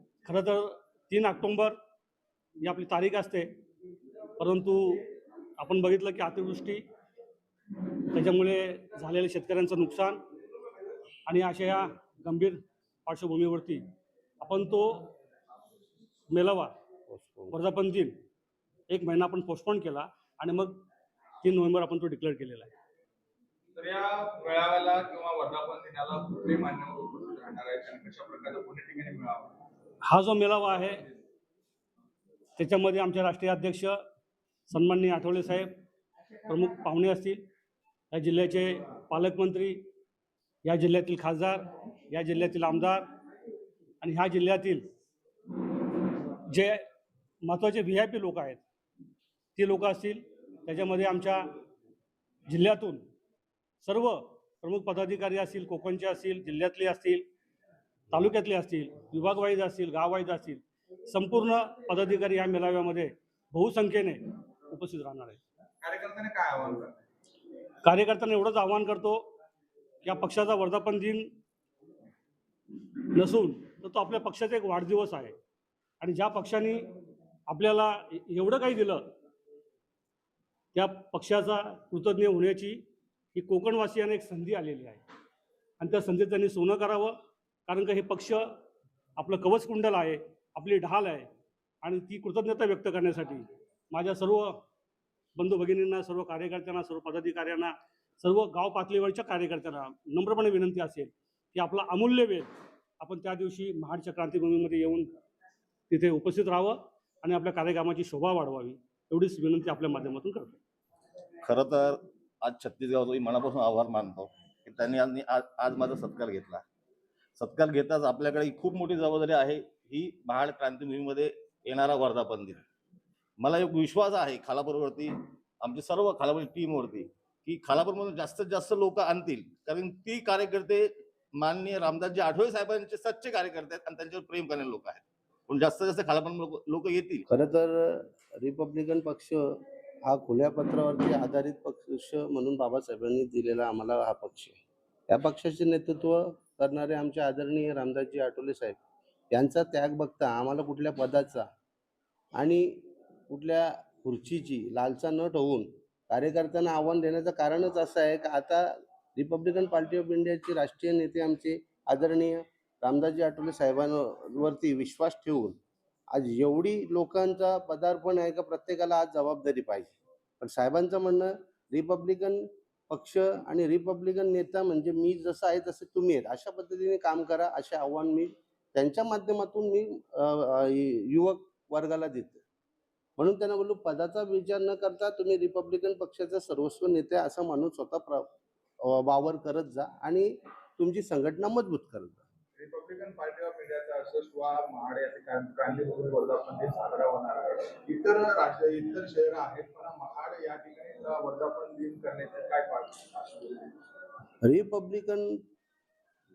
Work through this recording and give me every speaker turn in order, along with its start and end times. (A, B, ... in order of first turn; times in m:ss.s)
0:00.2-0:01.8 A
0:02.6-0:03.5 A
0:04.4-0:05.0 A
0:05.6-0:06.8 A
0:08.1-0:10.2 A
0:11.3-0:13.8 A
0:14.4-0:15.1 A
0:16.3-0:16.7 A
0:17.1-0:17.6 B
0:17.5-0:18.2 A
0:18.9-0:20.8 A
0:21.4-0:22.7 A
0:23.8-0:29.5 C
0:30.0-0:31.0 A
0:32.6-0:34.0 A
0:34.7-0:35.7 A
0:36.5-0:37.4 A
0:38.1-0:39.8 A
0:40.6-0:43.0 A
0:44.0-0:44.9 A
0:46.5-0:46.8 A
0:47.4-0:48.6 A
0:49.6-0:51.5 A
0:52.5-0:53.0 A
0:53.8-0:57.2 A
0:58.1-1:05.4 A
1:05.8-1:07.0 C
1:07.8-1:09.3 A
1:10.0-1:11.3 A
1:13.1-1:15.4 A
1:16.0-1:16.9 A
1:17.5-1:19.1 A
1:20.7-1:22.8 A
1:23.3-1:25.0 A
1:25.8-1:27.2 A
1:27.7-1:28.4 A
1:29.2-1:31.3 A
1:31.8-1:34.5 A
1:35.4-1:45.1 A
1:45.9-1:50.6 A
1:51.4-1:56.6 D
1:57.4-2:02.6 D
2:03.4-2:17.2 D
2:17.3-2:19.4 B
2:20.0-2:24.6 B
2:25.1-2:28.8 B
2:29.3-2:31.5 B
2:32.4-2:45.6 B
2:46.1-3:02.4 B
3:03.2-3:08.3 B
3:08.8-3:12.2 B
3:12.6-3:23.7 C
3:24.4-3:25.4 B